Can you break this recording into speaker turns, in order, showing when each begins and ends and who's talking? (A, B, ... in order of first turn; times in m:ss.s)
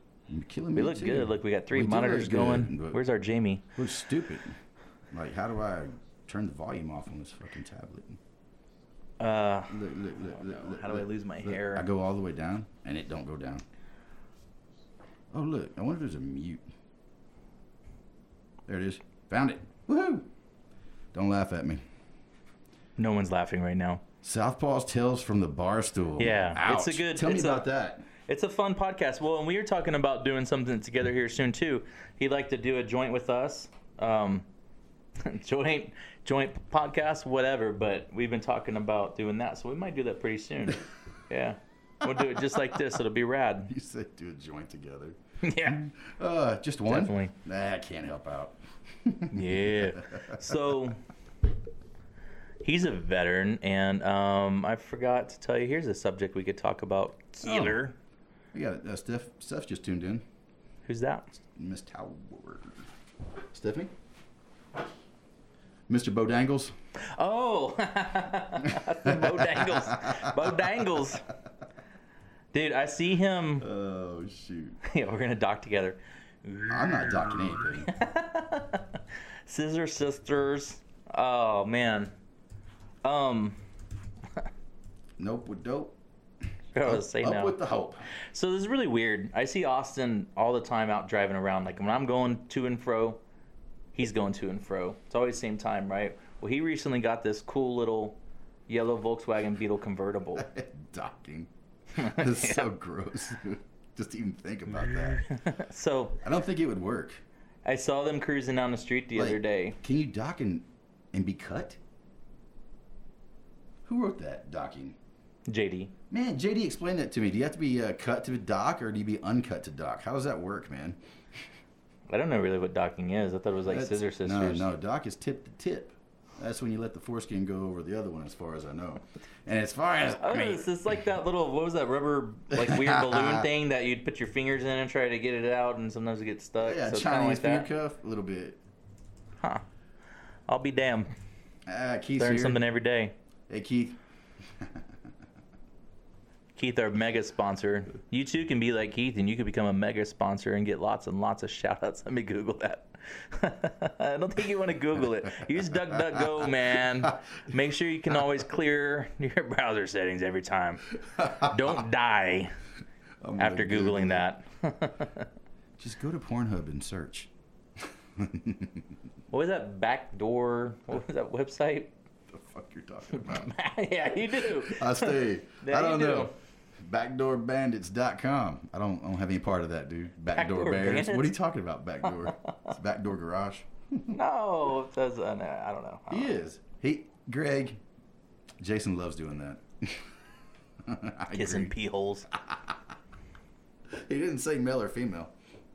0:00.3-0:03.0 A
0:00.8-0:03.7 B
0:03.8-0:04.6 A
0:05.1-0:08.2 A
0:09.2-0:11.9 B
0:09.7-0:13.6 A
0:15.3-0:16.6 A
0:18.7-0:20.3 A
0:21.1-0:21.8 A
0:23.0-0:24.0 B
0:24.2-0:28.1 A
0:26.2-0:27.7 B
0:28.2-0:34.5 B
0:35.2-0:43.7 B
0:42.1-0:42.7 A
0:43.7-0:50.7 A
0:45.4-0:45.8 B
0:46.9-0:47.3 B
0:49.3-0:51.0 B
0:52.6-0:58.0 B
0:57.4-0:57.8 A
0:58.5-1:00.2 A
1:00.8-1:01.3 B
1:01.6-1:02.8 A
1:03.5-1:03.9 A
1:05.9-1:06.7 A
1:07.0-1:11.3 B
1:08.7-1:10.4 A
1:12.5-1:13.7 B
1:13.6-1:14.8 A
1:14.8-1:22.1 B
1:16.7-1:17.9 A
1:23.0-1:23.6 B
1:25.2-1:26.0 A
1:26.7-1:27.6 B
1:26.8-1:28.1 A
1:28.1-1:33.2 B
1:34.0-1:40.5 B
1:40.4-1:45.2 A
1:42.0-1:42.7 B
1:45.2-1:46.2 B
1:46.2-1:47.2 A
1:47.6-1:49.8 B
1:49.2-1:51.8 A
1:53.8-1:55.0 A
1:55.5-1:55.9 B
1:56.1-2:01.0 A
2:02.1-2:04.7 B
2:03.7-2:10.7 A
2:10.2-2:17.7 B
2:12.5-2:13.5 A
2:16.6-2:18.6 A
2:20.5-2:21.1 B
2:21.7-2:22.6 A
2:22.2-2:23.2 B
2:23.5-2:24.0 A
2:26.6-2:42.5 B
2:41.2-2:41.6 A
2:43.2-2:44.3 A
2:43.4-2:45.3 B
2:45.8-2:47.3 A
2:48.2-2:48.8 A
2:49.3-2:51.9 B
2:52.3-2:53.6 A
2:53.1-2:56.3 B
2:54.2-3:04.2 A
3:00.3-3:01.4 B
3:02.2-3:02.7 B
3:04.1-3:06.4 B
3:06.1-3:07.8 A
3:08.6-3:10.1 A
3:10.8-3:11.7 A
3:11.3-3:12.3 B
3:12.3-3:12.8 A
3:13.9-3:15.3 A